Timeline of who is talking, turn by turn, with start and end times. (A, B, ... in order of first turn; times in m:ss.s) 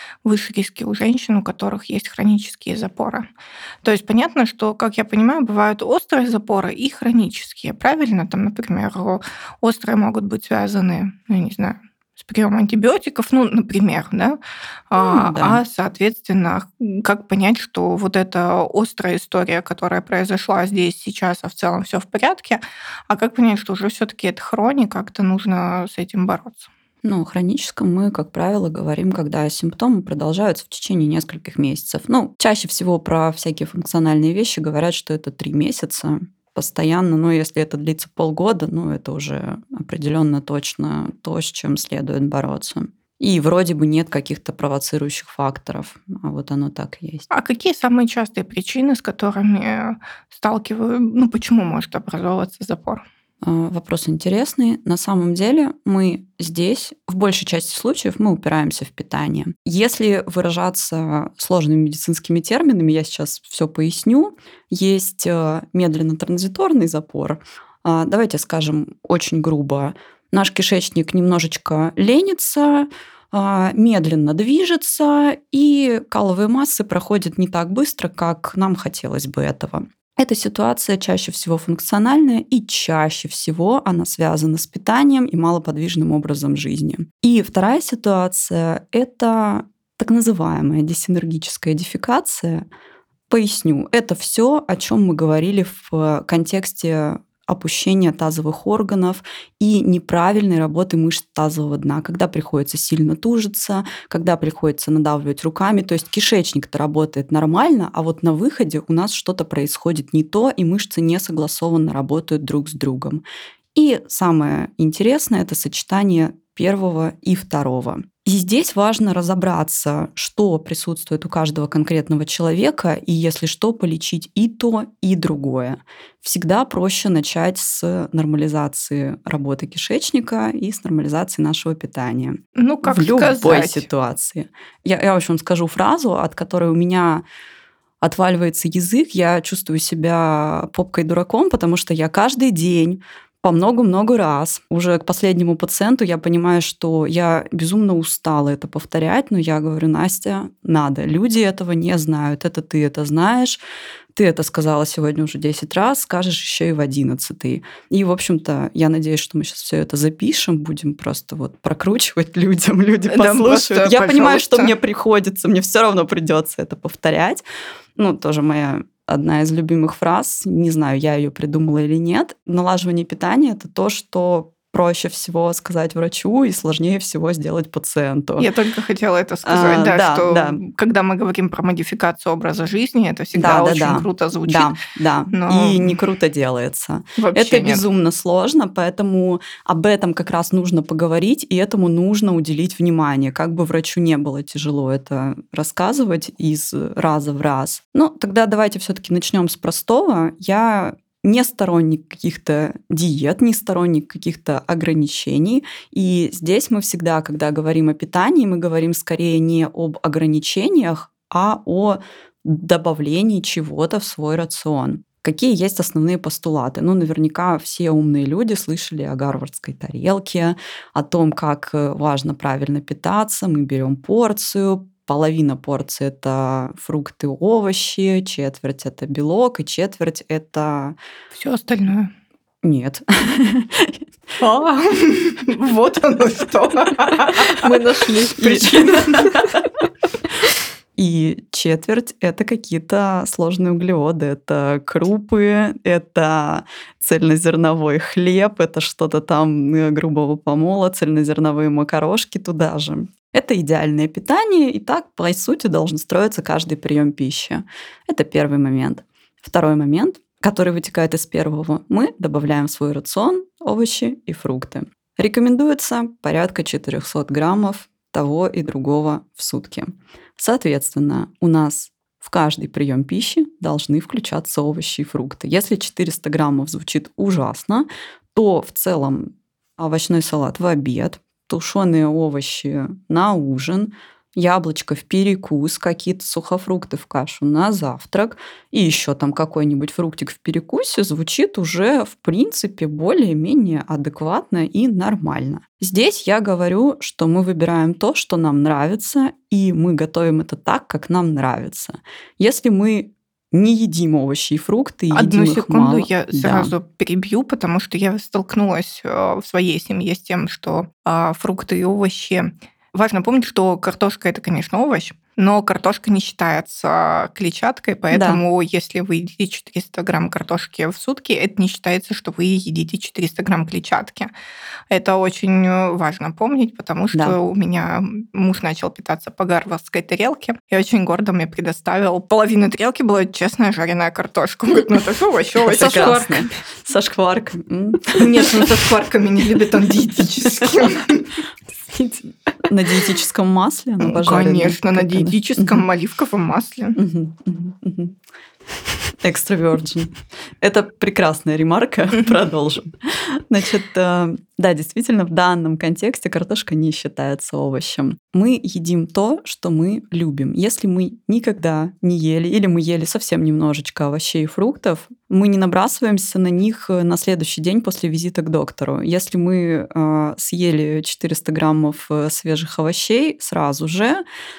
0:00.2-0:03.3 A
0:03.8-0:14.4 A
0:14.9-0:26.7 A
0:15.0-0:15.6 B
0:27.0-0:47.3 B
0:47.3-0:53.0 A
0:53.4-1:32.7 B
1:33.3-1:53.2 B
1:53.8-2:17.2 B
2:12.6-2:13.9 A
2:18.0-2:33.6 B
2:34.1-2:47.4 B
2:43.1-2:44.7 A
2:48.0-2:58.5 B
2:58.4-3:04.8 A
2:59.4-3:00.6 B
3:03.3-3:51.0 B
3:05.3-3:06.0 A
3:07.2-3:07.8 A
3:51.3-3:52.1 A
3:52.6-3:54.0 B
3:54.4-3:57.7 A
3:57.6-3:59.5 C
3:58.4-3:59.6 B
4:01.0-5:06.7 B
5:05.1-5:24.3 A
5:18.1-5:18.4 B
5:24.9-5:36.4 A
5:35.6-5:38.7 B
5:35.8-5:36.5 C
5:38.2-5:41.2 A
5:40.2-5:40.7 B
5:41.9-5:42.6 C
5:42.7-5:45.8 B
5:44.0-5:47.0 A
5:47.0-5:48.2 B
5:49.2-6:14.2 B